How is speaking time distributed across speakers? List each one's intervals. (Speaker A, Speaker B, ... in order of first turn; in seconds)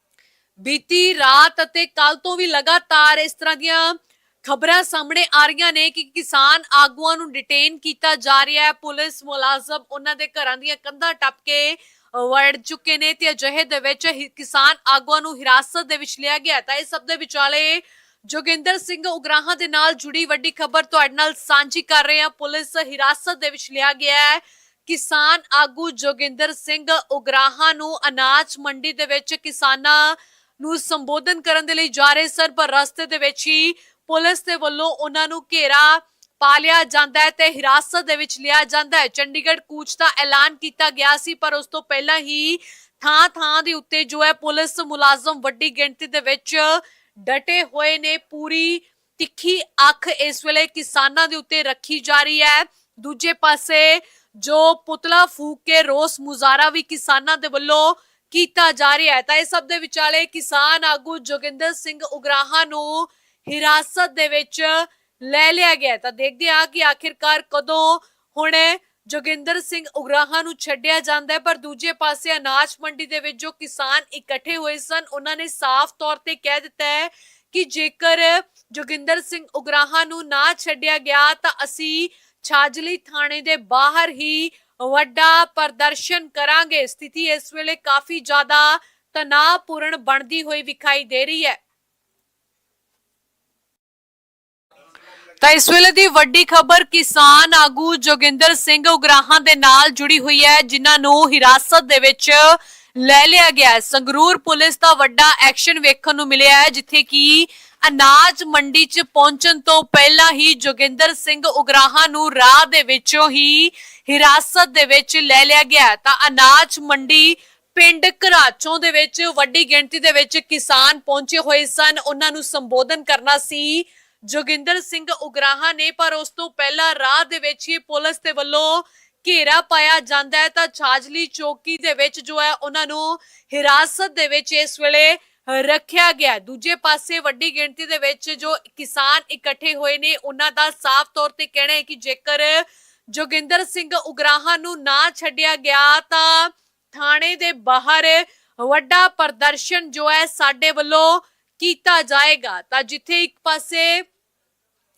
Speaker A: 0.6-91.6, 95.4-154.0